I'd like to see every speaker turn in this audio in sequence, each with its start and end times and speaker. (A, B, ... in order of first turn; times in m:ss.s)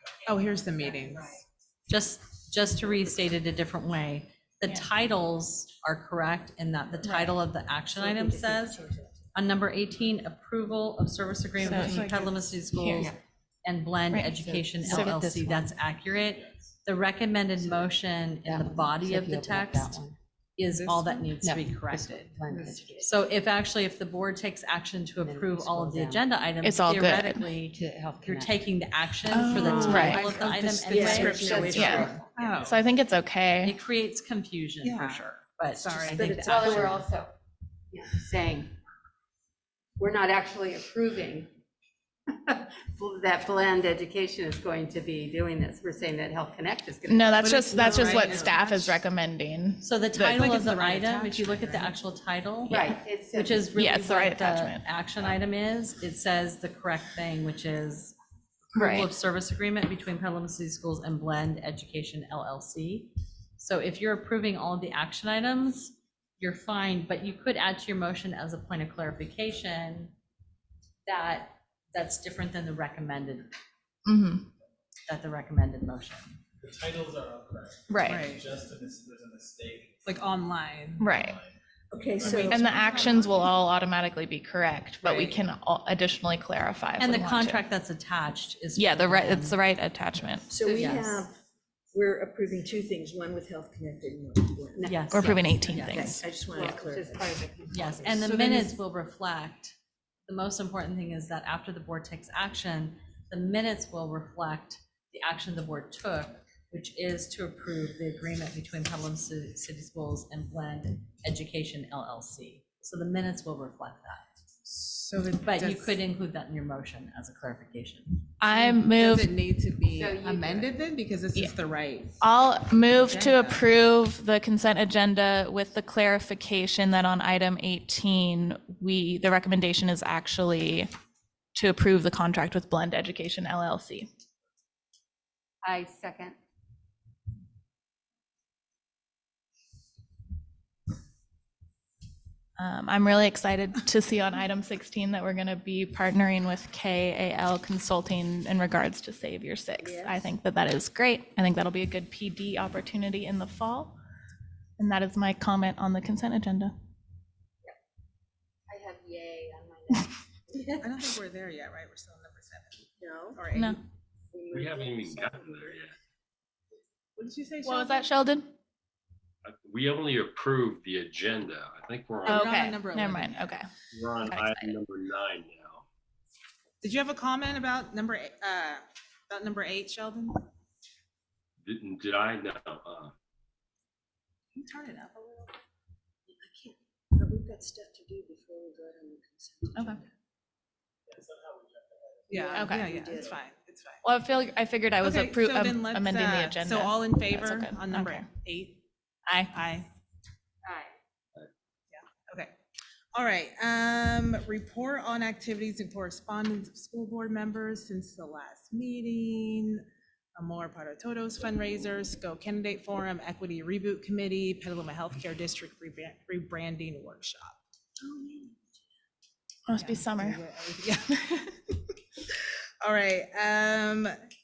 0:00.2-0:01.4 A
0:00.5-0:01.4 B
0:01.9-0:08.8 C
0:08.0-0:08.9 B
0:09.3-0:20.0 C
0:11.6-0:12.1 D
0:11.7-0:12.6 A
0:12.7-0:13.1 D
0:14.1-0:15.3 D
0:14.4-0:15.7 B
0:18.4-0:20.2 B
0:20.6-0:32.2 C
0:20.7-0:21.3 A
0:21.4-0:23.2 B
0:25.2-0:26.2 B
0:26.6-0:27.5 D
0:27.7-0:28.7 B
0:29.3-0:30.3 D
0:29.3-0:30.2 B
0:29.4-0:32.7 A
0:30.9-0:32.1 E
0:30.9-0:32.7 B
0:31.7-0:33.8 D
0:33.6-0:37.0 C
0:34.8-0:36.6 A
0:36.1-0:37.0 E
0:36.1-0:37.3 B
0:37.9-0:38.7 B
0:40.0-0:41.5 B
0:42.5-0:48.5 B
0:47.0-0:50.6 D
0:47.4-0:49.0 A
0:49.8-0:58.1 C
0:50.4-0:52.0 A
0:52.7-0:53.6 B
0:53.7-0:54.8 D
0:58.7-0:59.1 D
0:58.7-1:10.1 C
1:11.0-1:13.5 C
1:14.0-1:14.5 D
1:15.1-1:16.4 C
1:16.6-1:20.2 F
1:17.9-1:18.3 D
1:18.1-1:18.4 A
1:20.0-1:21.0 A
1:21.0-1:21.4 D
1:21.0-1:21.5 F
1:21.9-1:22.7 E
1:22.1-1:23.1 F
1:22.2-1:23.6 A
1:22.5-1:27.6 D
1:25.0-1:25.4 A
1:27.0-1:29.6 C
1:28.7-1:30.5 D
1:30.5-1:31.3 E
1:30.6-1:31.0 B
1:30.7-1:31.2 C
1:31.9-1:34.9 E
1:34.8-1:35.4 B
1:34.8-1:36.2 C
1:35.1-1:36.2 D
1:35.9-1:37.4 E
1:36.5-1:38.5 B
1:37.7-1:39.7 C
1:38.2-1:38.7 E
1:40.3-1:54.2 C
1:54.6-1:56.0 A
1:55.4-1:58.3 C
1:58.4-1:59.3 D
1:58.4-2:02.2 A
1:59.9-2:00.8 B
2:02.2-2:10.9 D
2:03.0-2:03.6 A
2:11.5-2:14.1 D
2:15.6-2:16.4 B
2:22.6-2:34.0 D
2:29.8-2:30.3 B
2:34.8-2:36.7 D
2:38.7-2:41.1 B
2:40.8-2:42.8 A
2:43.0-2:43.4 E
2:43.3-2:43.8 A
2:43.5-2:43.8 D
2:44.3-2:45.8 B
2:44.5-2:45.9 G
2:47.2-2:48.1 A
2:47.6-2:48.5 D
2:49.4-2:52.5 G
2:52.2-2:53.5 A
2:52.3-2:53.7 D
2:53.9-2:55.8 G
2:54.2-2:54.7 D
2:56.8-3:00.4 A
3:01.6-3:03.1 G
3:04.5-3:05.6 A
3:06.3-3:10.1 E
3:09.7-3:10.0 D
3:11.1-3:12.5 F
3:12.3-3:13.3 E
3:12.3-3:14.0 A
3:12.5-3:12.9 D
3:13.0-3:13.4 F
3:14.0-3:18.3 D
3:15.0-3:18.8 A
3:19.3-3:19.5 D
3:19.5-3:19.9 A
3:20.6-3:20.9 B
3:21.9-3:22.5 A
3:23.1-3:29.8 A
3:30.4-3:37.6 A
3:39.7-3:40.4 D
3:39.7-3:41.2 A
3:41.1-3:41.4 D
3:42.8-3:44.1 A